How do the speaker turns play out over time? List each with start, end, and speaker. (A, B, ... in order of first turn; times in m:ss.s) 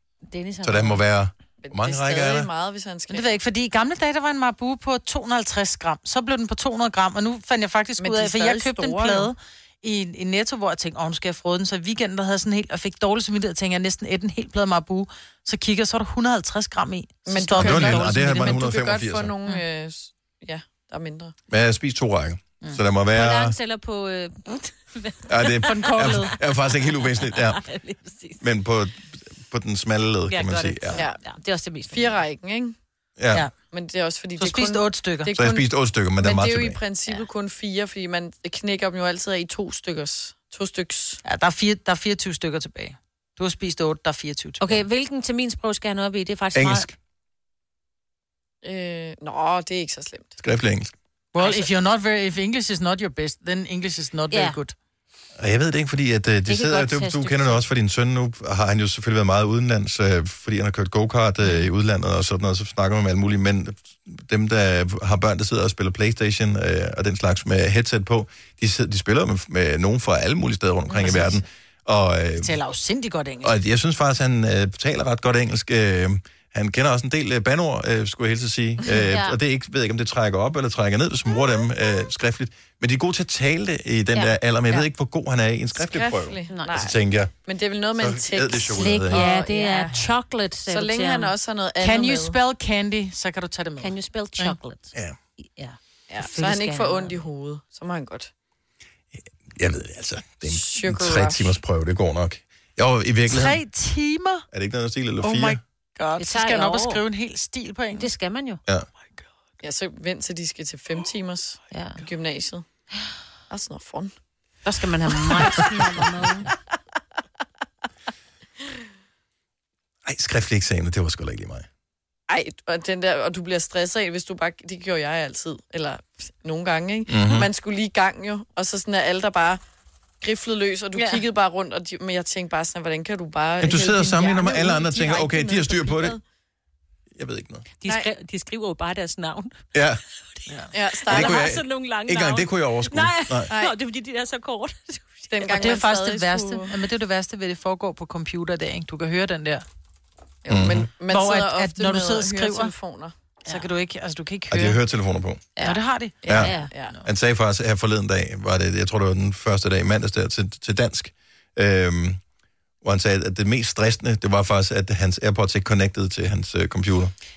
0:00.3-0:01.0 A
0:00.6-0:02.5 B
0:01.6-0:03.4 C
0:03.1-0:18.6 D
0:08.0-0:09.3 C
0:17.3-0:21.4 C
0:17.6-0:19.3 B
0:21.5-0:23.6 B
0:23.1-0:26.2 A
0:25.3-0:27.6 B
0:25.6-0:26.4 D
0:27.0-0:28.4 A
0:28.4-0:31.0 B
0:30.3-0:32.1 A
0:30.9-0:31.2 C
0:31.9-0:32.8 C
0:33.2-0:33.5 B
0:33.7-0:35.7 C
0:34.4-0:35.3 D
0:35.4-0:36.8 B
0:36.2-0:41.2 C
0:41.2-0:44.8 D
0:44.6-0:46.9 A
0:46.5-0:47.0 B
0:48.6-0:50.4 C
0:50.4-0:50.9 B
0:51.3-0:54.8 D
0:54.3-0:54.6 A
0:55.4-1:12.6 B
0:56.5-0:57.6 A
1:10.9-1:11.4 D
1:12.4-1:13.6 D
1:13.4-1:27.3 B
1:18.9-1:19.4 A
1:25.8-1:29.4 C
1:26.5-1:26.8 A
1:28.0-1:29.2 B
1:28.7-1:31.3 A
1:29.1-1:30.0 D
1:30.7-1:32.4 C
1:31.8-1:34.6 D
1:33.8-1:37.2 A
1:36.1-1:38.3 C
1:39.2-1:43.6 B
1:40.4-1:41.6 C
1:43.3-1:44.4 D
1:44.5-1:45.6 B
1:45.2-1:48.1 D
1:46.2-1:47.0 A
1:47.9-1:48.6 A
1:49.6-1:52.6 C
1:51.7-1:52.0 A
1:53.5-1:54.1 C
1:54.6-1:56.5 A
2:00.0-2:01.7 B
2:02.3-2:09.6 C
2:07.1-2:07.5 B
2:10.2-2:16.2 C
2:11.0-2:11.2 A
2:13.6-2:16.2 B
2:17.2-2:17.7 B
2:17.8-2:19.6 A
2:19.7-2:20.0 B
2:20.7-2:21.4 C
2:21.0-2:25.3 A
2:21.1-2:23.5 B
2:25.3-2:26.7 C
2:25.5-2:29.6 D
2:30.4-2:33.1 C
2:30.5-2:30.9 B
2:31.1-2:32.7 D
2:33.5-2:34.8 D
2:34.5-2:35.5 B
2:35.6-2:37.0 D
2:36.2-2:36.9 C
2:36.3-2:42.2 B
2:36.3-2:36.7 A
2:42.8-2:47.1 B